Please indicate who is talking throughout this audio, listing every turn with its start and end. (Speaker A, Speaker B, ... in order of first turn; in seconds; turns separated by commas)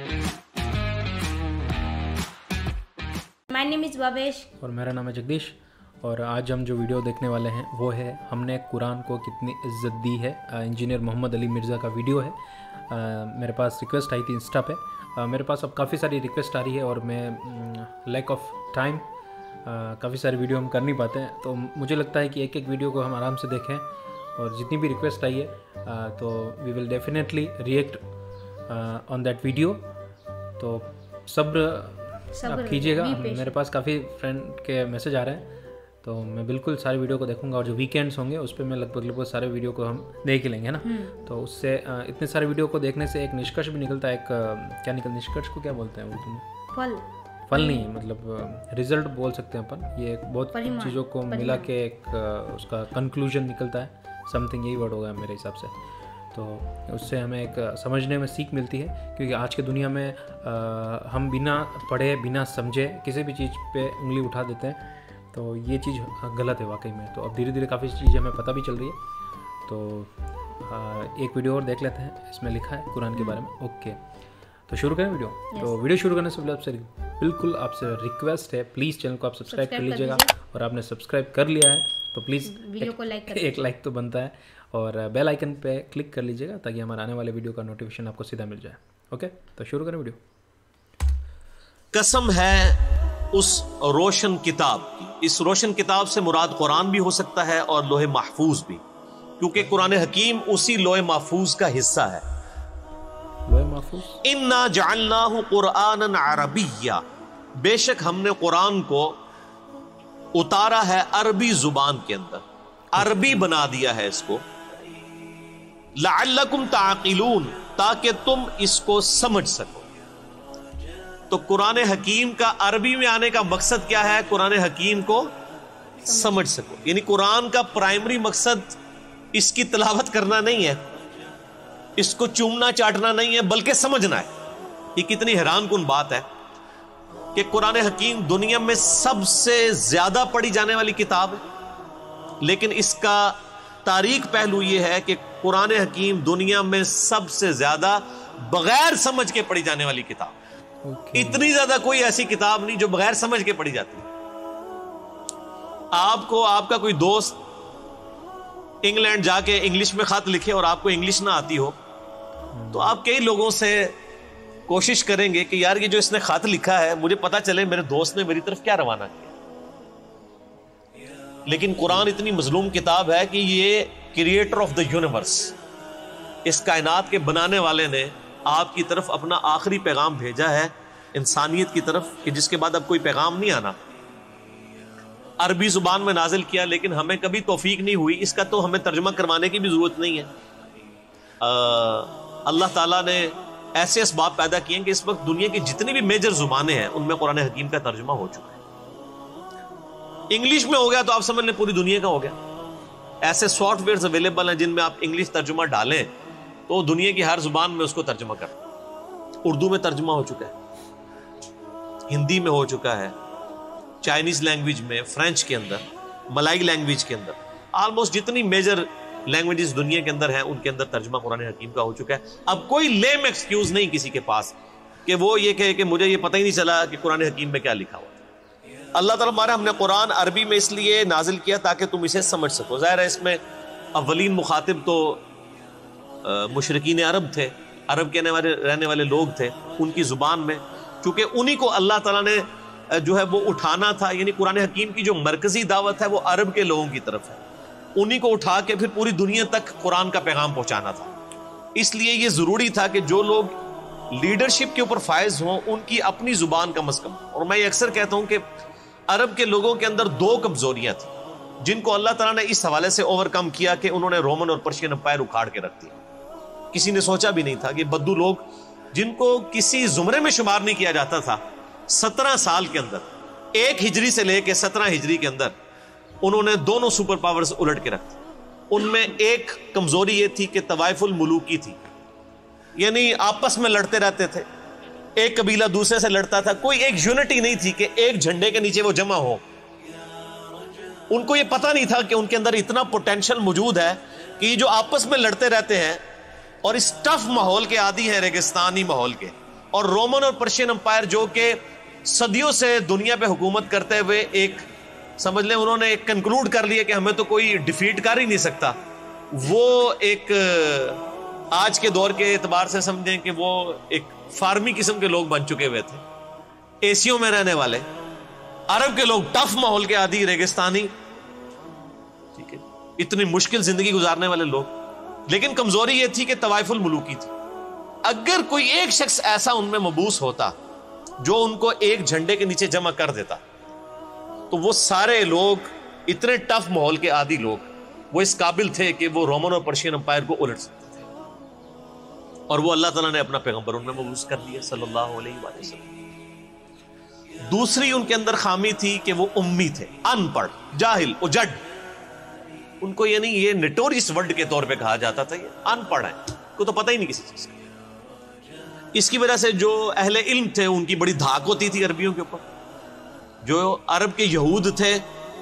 Speaker A: 3.5-4.5, Speaker B: 4.6-12.4, Speaker B: 12.9-19.1, Speaker B: 19.6-28.0, Speaker B: 28.7-29.9, Speaker B: 30.6-35.5, Speaker A: 32.3-33.5, Speaker B: 36.0-46.5, Speaker A: 40.9-41.1, Speaker A: 46.7-47.9, Speaker B: 47.5-55.8, Speaker A: 50.5-51.7, Speaker B: 56.3-69.0, Speaker B: 69.7-74.0, Speaker B: 74.7-90.2, Speaker A: 75.5-75.8, Speaker A: 79.5-80.3, Speaker A: 82.5-83.5, Speaker C: 91.9-92.8, Speaker C: 93.3-98.8, Speaker C: 99.4-102.2, Speaker B: 103.5-104.2, Speaker C: 104.2-107.0, Speaker C: 107.6-109.2, Speaker C: 110.3-112.4, Speaker B: 113.0-113.5, Speaker C: 113.0-114.5, Speaker C: 116.0-119.9, Speaker C: 121.3-125.3, Speaker A: 126.0-126.4, Speaker C: 126.1-128.8, Speaker C: 129.3-130.8, Speaker C: 132.0-134.3, Speaker C: 135.0-136.3, Speaker C: 137.3-141.4, Speaker C: 142.4-150.4, Speaker B: 150.8-151.4, Speaker C: 151.2-154.1, Speaker C: 155.9-157.4, Speaker C: 158.8-161.8, Speaker B: 162.5-162.9, Speaker C: 162.7-164.0, Speaker C: 164.7-169.3, Speaker C: 171.5-175.6, Speaker C: 176.4-183.8, Speaker C: 185.4-190.3, Speaker C: 191.4-198.6, Speaker C: 200.3-202.4, Speaker C: 203.2-206.1, Speaker C: 206.7-208.6, Speaker C: 209.4-210.6, Speaker C: 212.1-213.2, Speaker C: 214.0-228.2, Speaker C: 228.9-233.4, Speaker C: 233.9-235.2, Speaker C: 236.2-247.4, Speaker C: 248.0-251.1, Speaker C: 251.8-253.5, Speaker C: 254.1-258.4, Speaker C: 259.1-265.9, Speaker C: 266.7-275.6, Speaker C: 276.2-278.2, Speaker C: 278.7-281.8, Speaker C: 282.8-284.5, Speaker C: 285.2-289.4, Speaker C: 291.1-296.0, Speaker C: 296.6-304.7, Speaker C: 305.2-308.8, Speaker C: 309.3-316.0, Speaker C: 316.8-317.9, Speaker C: 318.7-320.9, Speaker C: 322.4-324.7, Speaker C: 325.3-327.3, Speaker C: 328.1-330.5, Speaker C: 331.2-333.4, Speaker C: 334.5-341.0, Speaker C: 342.5-345.9, Speaker C: 347.5-351.6, Speaker C: 352.8-357.6, Speaker C: 358.9-362.4, Speaker C: 363.4-365.1